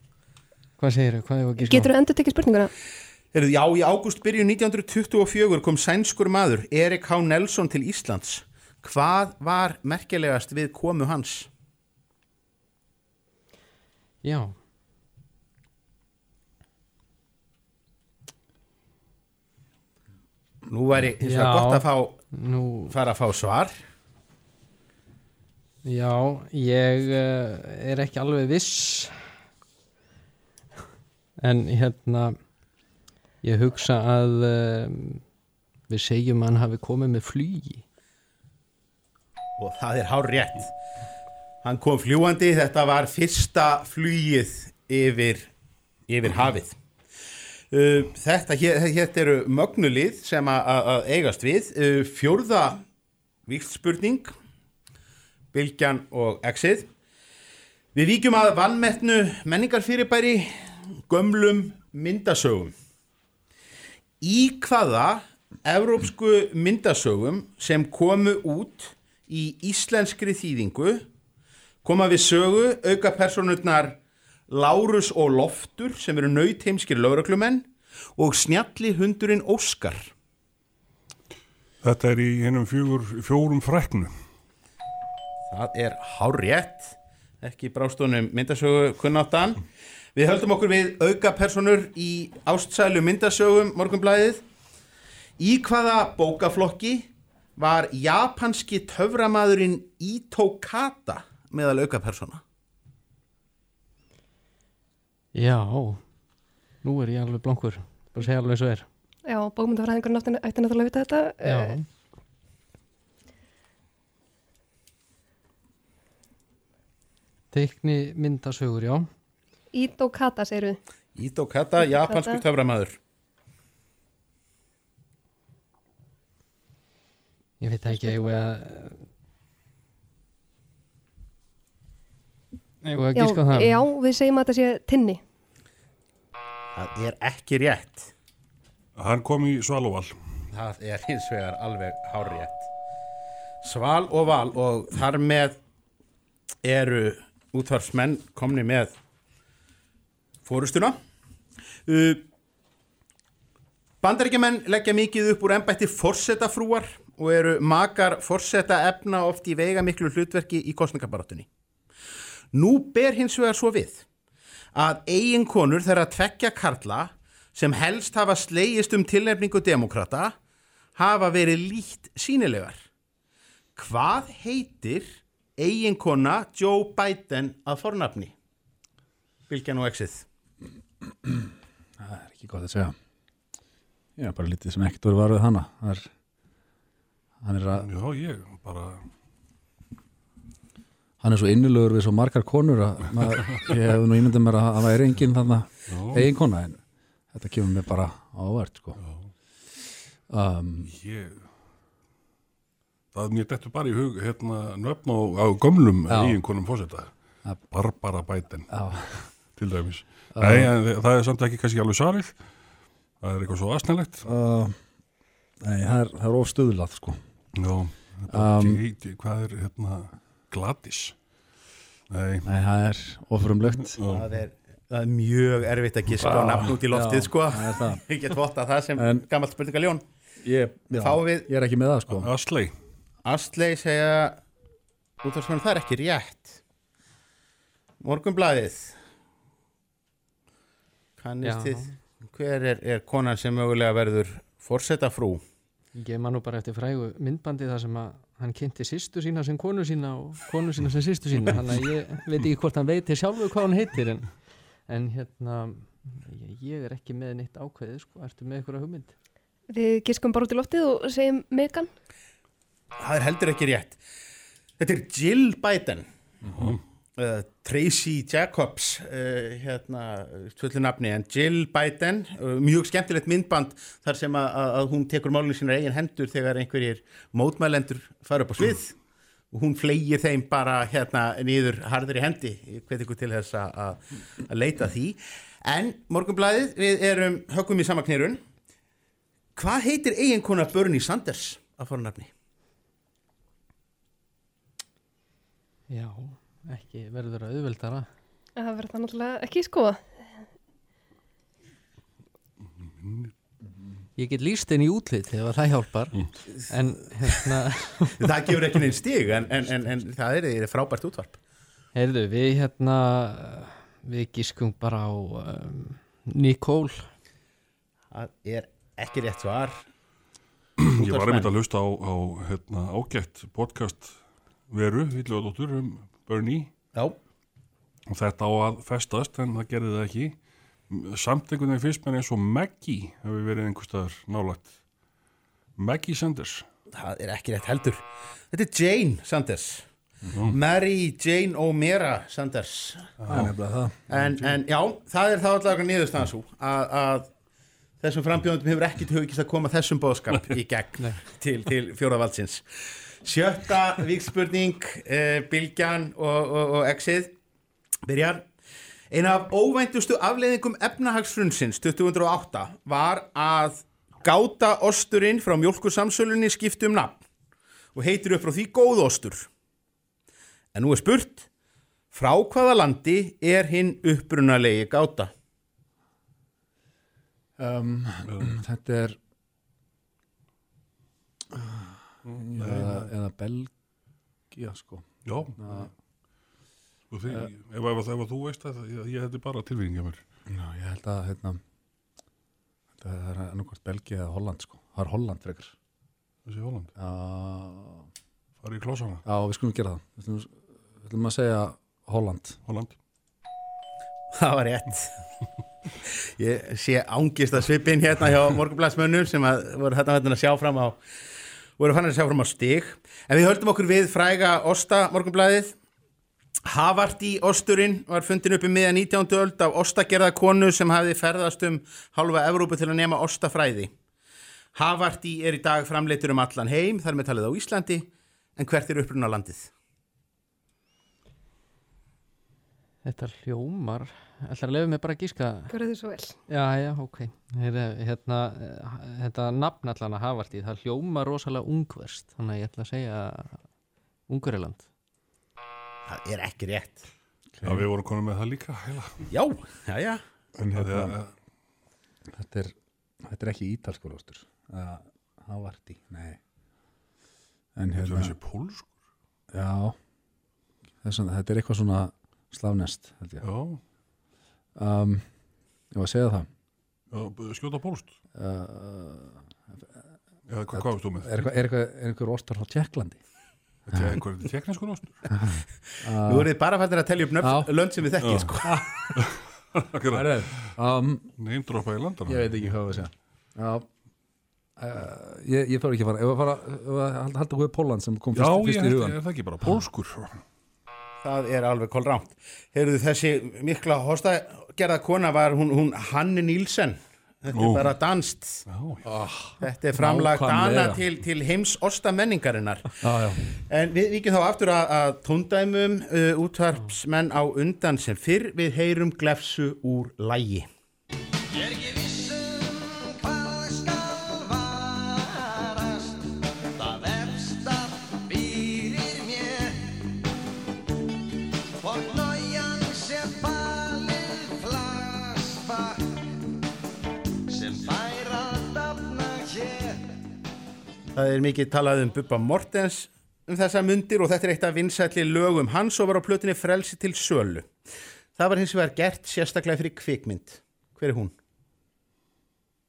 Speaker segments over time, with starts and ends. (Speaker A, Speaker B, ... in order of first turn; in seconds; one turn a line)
Speaker A: 0.8-1.9
Speaker B: 1.6-2.7
Speaker C: 3.3-11.5
Speaker A: 14.2-14.6
Speaker C: 20.7-22.2
Speaker A: 21.2-23.0
Speaker C: 22.9-23.8
Speaker A: 25.8-29.3
Speaker A: 31.4-32.6
Speaker A: 33.4-35.3
Speaker A: 35.9-37.8
Speaker C: 39.6-40.7
Speaker C: 41.6-45.5
Speaker C: 46.1-46.8
Speaker C: 47.7-52.8
Speaker C: 53.5-54.3
Speaker C: 55.5-56.9
Speaker C: 57.9-62.7
Speaker C: 64.2-71.0
Speaker C: 71.8-74.0
Speaker C: 74.5-80.1
Speaker D: 81.8-84.1
Speaker C: 85.5-89.6
Speaker C: 90.2-94.4
Speaker C: 95.4-97.1
Speaker C: 97.6-102.4
Speaker A: 105.3-106.3
Speaker A: 106.8-108.9
Speaker B: 109.3-111.8
Speaker A: 111.4-111.9
Speaker A: 117.5-119.1
Speaker B: 119.7-120.8
Speaker C: 121.2-123.0
Speaker B: 121.8-122.4
Speaker A: 127.6-129.1
Speaker A: 132.9-133.8
Speaker B: 133.1-135.2
Speaker C: 136.8-138.1
Speaker D: 139.0-140.2
Speaker C: 140.5-142.7
Speaker C: 143.6-145.6
Speaker C: 146.6-148.9
Speaker C: 150.4-151.0
Speaker C: 151.9-152.2
Speaker C: 154.0-161.5
Speaker C: 162.5-164.1
Speaker C: 164.7-170.3
Speaker C: 171.0-172.8
Speaker C: 173.8-178.3
Speaker C: 179.5-180.2
Speaker E: 181.2-182.9
Speaker E: 184.2-186.1
Speaker E: 187.4-187.9
Speaker D: 187.8-189.1
Speaker E: 191.2-196.8
Speaker D: 195.9-196.2
Speaker E: 197.3-199.0
Speaker D: 199.0-199.3
Speaker E: 200.3-200.9
Speaker D: 200.9-201.5
Speaker D: 203.1-212.5
Speaker E: 206.1-206.4
Speaker E: 208.7-209.4
Speaker E: 210.3-210.7
Speaker D: 213.2-214.3
Speaker E: 214.2-214.9
Speaker E: 215.6-217.2
Speaker D: 217.6-221.2
Speaker E: 218.3-218.8
Speaker D: 222.1-222.5
Speaker E: 222.4-224.0
Speaker D: 223.8-224.2
Speaker C: 224.1-230.0
Speaker E: 226.2-228.0
Speaker E: 229.0-229.2
Speaker E: 230.4-232.3
Speaker C: 230.9-231.5
Speaker D: 232.1-232.7
Speaker C: 233.2-234.4
Speaker C: 235.2-236.6
Speaker C: 238.0-239.0
Speaker C: 241.2-245.4
Speaker A: 241.4-241.9
Speaker A: 245.9-259.1
Speaker B: 259.7-261.9
Speaker C: 263.0-264.0
Speaker C: 264.8-266.1
Speaker D: 266.6-266.8
Speaker C: 267.2-278.9
Speaker C: 279.5-288.4
Speaker C: 289.6-292.3
Speaker A: 295.9-298.1
Speaker B: 298.6-300.3
Speaker D: 303.0-303.3
Speaker A: 304.2-308.1
Speaker C: 308.2-311.4
Speaker A: 311.9-317.1
Speaker C: 318.1-319.9
Speaker D: 320.8-326.7
Speaker C: 321.0-321.5
Speaker D: 328.1-330.4
Speaker D: 330.9-334.8
Speaker D: 335.8-336.6
Speaker C: 336.9-339.9
Speaker C: 340.5-343.1
Speaker D: 343.2-343.6
Speaker E: 343.3-344.0
Speaker C: 344.1-347.3
Speaker C: 348.0-352.6
Speaker C: 353.2-357.3
Speaker C: 358.1-358.5
Speaker C: 359.1-367.2
Speaker C: 367.9-369.5
Speaker C: 370.7-371.5
Speaker C: 372.1-375.3
Speaker E: 377.6-379.2
Speaker E: 381.5-383.7
Speaker D: 382.3-383.1
Speaker E: 384.5-385.9
Speaker D: 385.2-385.6
Speaker D: 387.1-390.2
Speaker E: 390.5-391.6
Speaker E: 393.0-395.8
Speaker D: 396.5-396.9
Speaker E: 397.0-398.1
Speaker D: 398.6-399.2
Speaker E: 399.2-402.6
Speaker D: 402.7-402.9
Speaker C: 404.4-405.1
Speaker C: 406.1-411.0
Speaker C: 411.8-415.7
Speaker C: 416.7-423.9
Speaker C: 424.8-429.7
Speaker A: 433.0-435.7
Speaker B: 435.7-436.4
Speaker A: 436.5-443.7
Speaker A: 444.3-444.9
Speaker C: 446.1-447.0
Speaker E: 447.6-447.9
Speaker D: 447.6-449.3
Speaker C: 449.3-450.2
Speaker D: 450.6-451.3
Speaker E: 450.7-451.1
Speaker E: 452.3-456.4
Speaker E: 457.8-458.3
Speaker D: 457.9-458.9
Speaker E: 459.5-460.0
Speaker E: 461.0-463.4
Speaker D: 463.4-463.8
Speaker E: 464.8-466.5
Speaker D: 467.1-468.2
Speaker E: 468.4-470.1
Speaker D: 470.5-471.4
Speaker E: 470.7-473.2
Speaker D: 473.9-475.3
Speaker E: 473.9-474.2
Speaker E: 475.3-476.5
Speaker C: 476.3-478.7
Speaker E: 477.4-477.7
Speaker D: 478.2-478.5
Speaker D: 479.9-480.8
Speaker E: 480.1-481.3
Speaker D: 481.4-482.8
Speaker E: 482.3-483.9
Speaker E: 484.8-489.9
Speaker D: 488.4-490.3
Speaker C: 491.2-498.6
Speaker D: 497.5-497.9
Speaker D: 498.7-499.0
Speaker E: 499.1-501.0
Speaker C: 499.6-502.9
Speaker E: 503.0-503.4
Speaker C: 503.7-510.7
Speaker F: 511.5-520.0
Speaker F: 521.8-526.1
Speaker F: 527.5-530.1
Speaker C: 531.1-537.7
Speaker C: 538.4-541.3